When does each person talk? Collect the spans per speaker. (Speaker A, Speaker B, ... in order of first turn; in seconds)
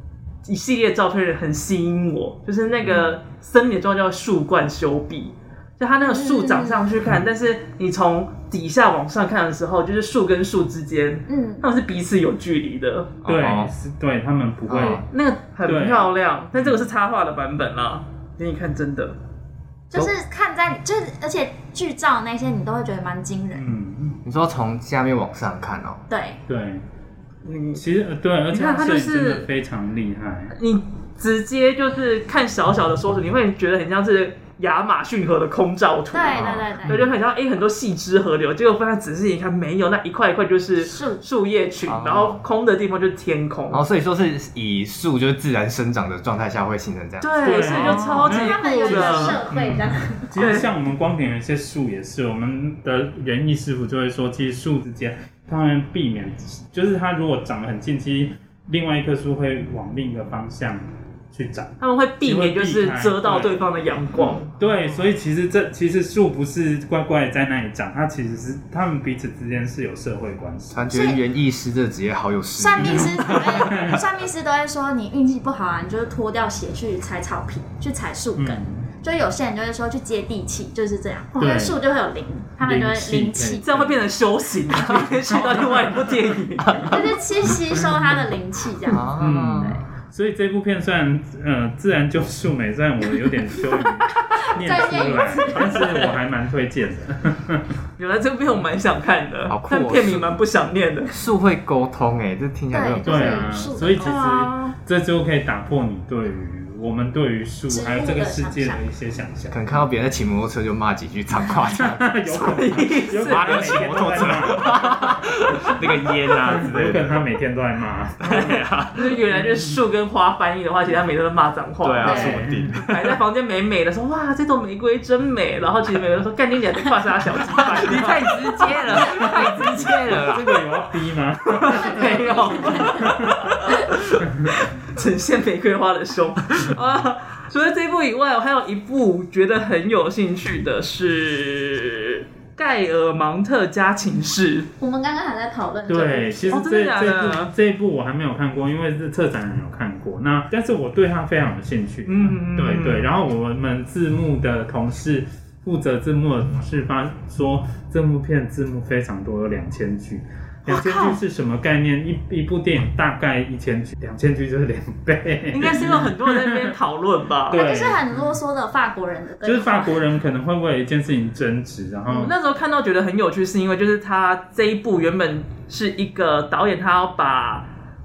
Speaker A: 0.4-13.2, 15.1-19.2, 27.4-27.8, 28.5-29.5, 30.5-43.8, 47.2-49.4, 50.4-50.7, 61.8-64.5, 83.6-86.9, 98.0-101.1, 104.0-104.8, 112.3-114.2, 118.2-128.5, 131.6-144.7, 146.5-147.5, 152.1-153.1, 165.5-167.6, 172.1-177.7
Speaker B: 6.1-6.9, 11.3-11.6, 19.9-23.7, 26.1-26.4, 36.1-37.0, 40.8-41.2, 47.7-50.3, 70.9-71.2, 72.6-83.7, 86.8-89.1, 94.4-95.9, 102.7-104.2, 107.7-108.8, 122.0-122.4, 131.7-133.1, 144.8-146.6, 160.7-161.2, 167.5-170.0
Speaker C: 13.2-13.7, 14.7-15.1, 24.2-26.0, 36.3-37.1, 41.9-42.4, 43.7-47.7, 70.7-73.7, 88.9-89.8, 99.5-100.4, 101.1-103.5, 109.5-112.2, 113.1-117.2, 118.2-119.2, 121.8-123.2, 127.6-130.6
Speaker D: 13.3-15.1, 15.7-16.8, 23.6-24.2, 26.5-26.8, 27.7-30.5, 47.4-63.6, 64.6-70.9, 72.8-74.0, 78.4-78.8, 81.4-81.8, 82.6-84.0, 85.3-85.9, 89.2-97.7, 103.0-109.6, 111.7-118.6, 122.0-122.8, 128.9-133.6, 134.2-134.6, 145.9-166.7, 167.5-168.3, 169.4-172.3